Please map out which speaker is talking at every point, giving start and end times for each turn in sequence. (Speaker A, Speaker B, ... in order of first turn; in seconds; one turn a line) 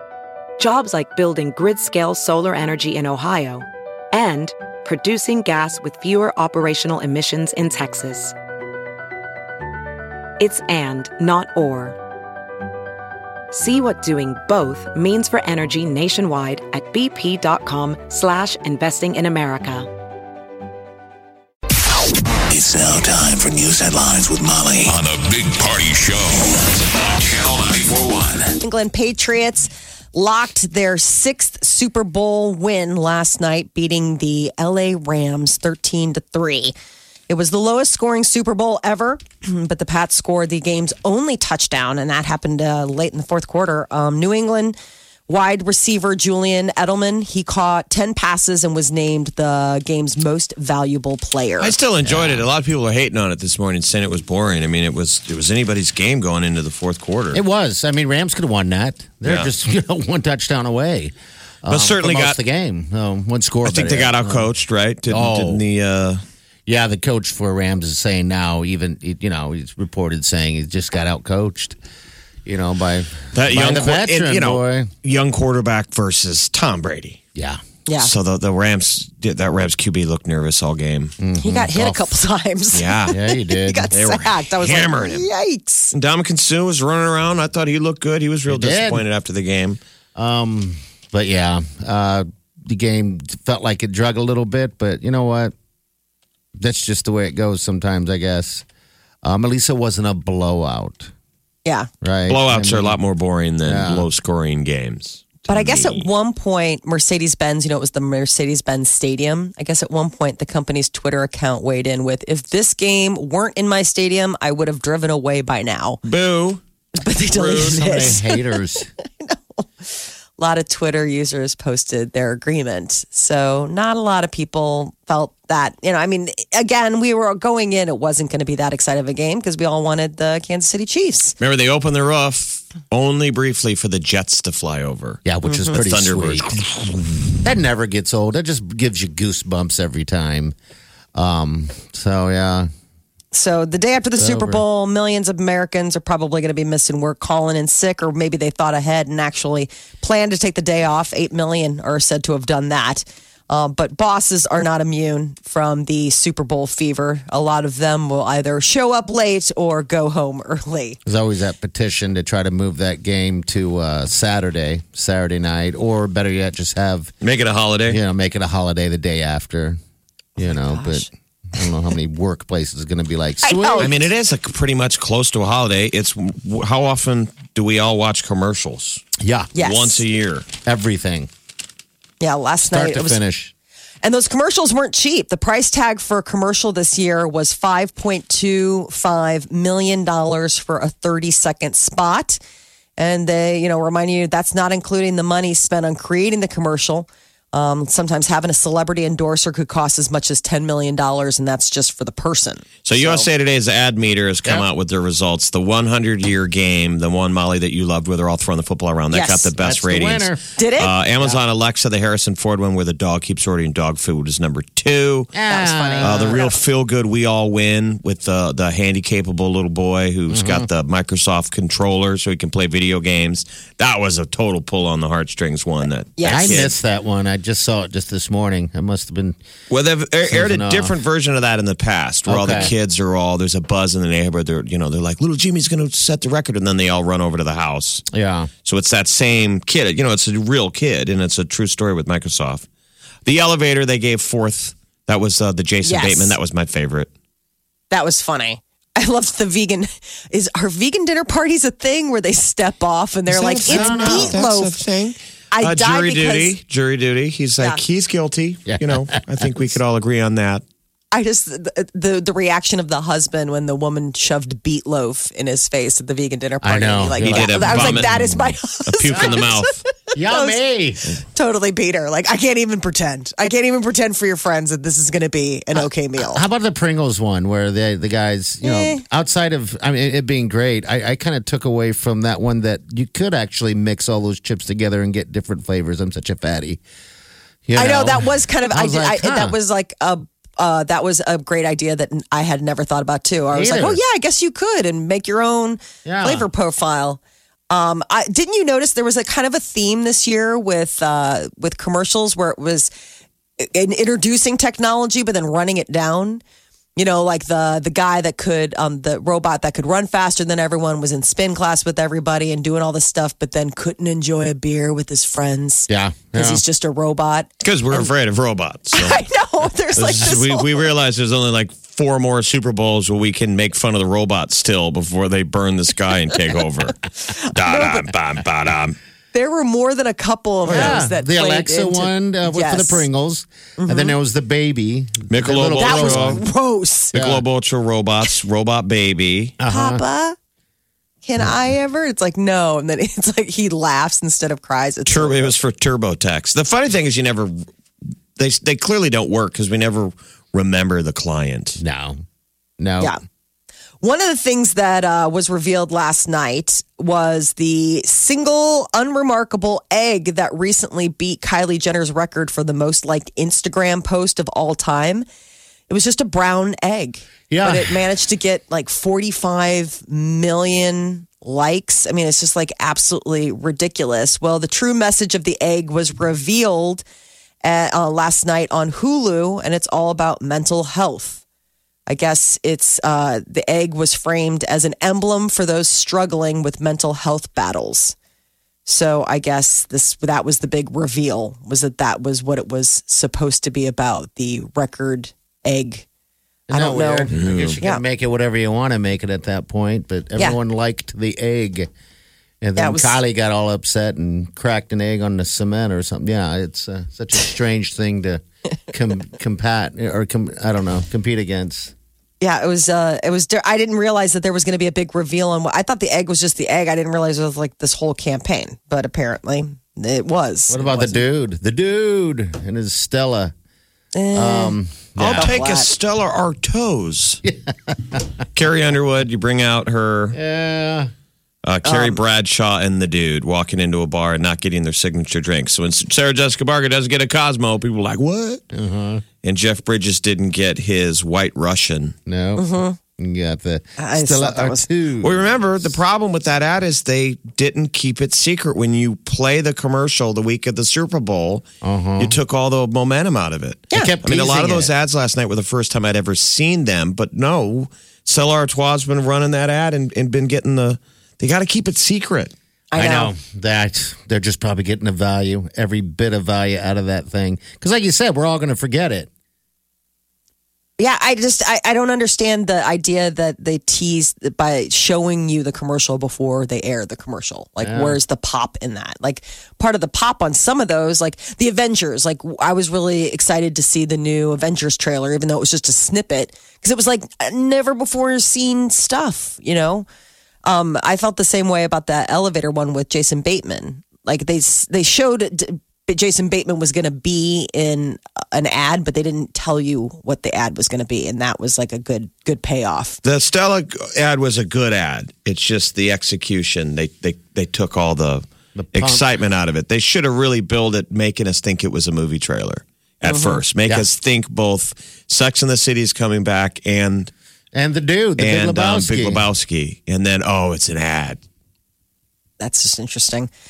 Speaker A: 0.6-8.3
Speaker A: 10.4-12.0
Speaker A: 13.5-19.9
Speaker B: 22.5-28.5
Speaker C: 28.6-36.7
Speaker C: 37.3-44.8
Speaker C: 45.3-51.7
Speaker D: 51.6-57.4
Speaker E: 52.0-52.4
Speaker E: 57.3-64.5
Speaker D: 59.2-59.5
Speaker D: 61.7-62.4
Speaker D: 63.6-66.2
Speaker E: 65.1-65.6
Speaker E: 66.7-71.8
Speaker E: 72.5-74.9
Speaker D: 73.3-77.2
Speaker E: 77.3-77.6
Speaker D: 78.0-81.1
Speaker E: 81.2-82.0
Speaker C: 81.4-85.9
Speaker D: 82.7-83.2
Speaker E: 83.1-83.9
Speaker D: 83.9-85.3
Speaker D: 85.9-89.8
Speaker E: 88.5-89.0
Speaker E: 90.2-95.5
Speaker E: 96.6-98.6
Speaker E: 99.2-101.1
Speaker C: 101.6-101.9
Speaker E: 102.0-103.0
Speaker D: 102.3-106.1
Speaker E: 103.7-104.1
Speaker C: 105.5-116.0
Speaker D: 116.0-116.6
Speaker C: 117.0-131.3
Speaker D: 117.2-118.0
Speaker E: 117.5-118.9
Speaker D: 131.4-137.0
Speaker E: 135.2-136.5
Speaker E: 137.3-140.5
Speaker E: 141.1-142.7
Speaker C: 143.3-161.0
Speaker E: 144.2-144.6
Speaker E: 161.1-167.1
Speaker D: 167.2-168.0
Speaker E: 167.9-169.8
Speaker E: 170.4-174.0
Speaker C: 170.4-171.1
Speaker C: 173.4-173.9
Speaker D: 173.8-179.0
Speaker E: 179.2-179.5
Speaker C: 179.5-180.0
Speaker D: 179.6-180.5
Speaker E: 180.6-181.3
Speaker C: 182.2-183.2
Speaker E: 182.7-183.5
Speaker C: 184.0-192.4
Speaker C: 193.0-203.3
Speaker D: 202.8-215.3
Speaker C: 209.1-209.5
Speaker E: 209.6-210.4
Speaker C: 210.6-210.9
Speaker E: 215.3-216.4
Speaker C: 215.5-216.6
Speaker D: 216.0-226.8
Speaker E: 220.3-220.7
Speaker C: 226.2-226.6
Speaker E: 226.2-229.4
Speaker D: 229.7-238.0
Speaker E: 230.3-230.9
Speaker E: 232.3-232.7
Speaker E: 238.1-238.5
Speaker D: 238.6-242.7
Speaker D: 243.2-247.1
Speaker C: 245.8-246.3
Speaker C: 247.9-254.8
Speaker D: 253.3-260.6
Speaker E: 253.7-254.3
Speaker C: 255.5-256.5
Speaker E: 258.7-259.5
Speaker C: 261.1-270.6
Speaker E: 266.6-268.3
Speaker D: 267.2-268.4
Speaker D: 268.9-269.8
Speaker E: 270.1-271.1
Speaker C: 271.3-276.4
Speaker E: 276.2-286.8
Speaker C: 278.6-279.0
Speaker E: 287.6-289.5
Speaker C: 287.7-302.9
Speaker E: 293.5-294.0
Speaker E: 296.0-296.4
Speaker C: 303.6-306.4
Speaker C: 306.9-318.1
Speaker E: 315.9-316.6
Speaker D: 317.6-319.2
Speaker C: 318.9-320.8
Speaker D: 319.9-327.0
Speaker C: 327.2-328.1
Speaker D: 327.5-328.9
Speaker C: 329.3-333.1
Speaker E: 330.6-336.4
Speaker D: 330.7-331.0
Speaker C: 333.8-334.1
Speaker D: 335.3-336.4
Speaker C: 335.8-337.1
Speaker E: 337.1-337.4
Speaker D: 337.1-339.6
Speaker E: 339.6-340.0
Speaker C: 339.7-340.4
Speaker C: 341.2-345.5
Speaker D: 345.1-347.6
Speaker D: 348.4-351.8
Speaker E: 351.8-352.2
Speaker E: 352.8-353.1
Speaker C: 354.0-365.2
Speaker C: 365.9-377.0
Speaker E: 367.5-368.0
Speaker C: 377.6-381.4
Speaker C: 382.1-388.1
Speaker C: 388.9-396.1
Speaker E: 396.7-401.9
Speaker C: 396.7-398.0
Speaker D: 397.3-397.8
Speaker E: 402.6-411.9
Speaker C: 402.8-403.2
Speaker C: 412.4-421.2
Speaker E: 420.7-423.5
Speaker C: 424.1-425.9
Speaker E: 424.3-425.6
Speaker D: 425.2-427.4
Speaker E: 427.4-428.2
Speaker D: 428.5-430.4
Speaker E: 430.3-431.1
Speaker D: 431.6-438.6
Speaker C: 431.8-432.2
Speaker E: 438.7-439.2
Speaker D: 439.4-442.1
Speaker E: 442.2-445.9
Speaker C: 442.6-443.0
Speaker C: 444.0-444.9
Speaker D: 445.2-451.6
Speaker E: 451.8-452.4
Speaker D: 452.2-462.5
Speaker E: 453.9-454.9
Speaker C: 462.9-463.3
Speaker E: 462.9-469.3
Speaker C: 471.0-490.1
Speaker E: 477.8-478.2
Speaker C: 490.6-503.2
Speaker D: 503.2-517.3
Speaker E: 508.7-509.2
Speaker C: 513.2-513.6
Speaker E: 517.7-519.4
Speaker D: 518.4-521.4
Speaker C: 522.6-523.5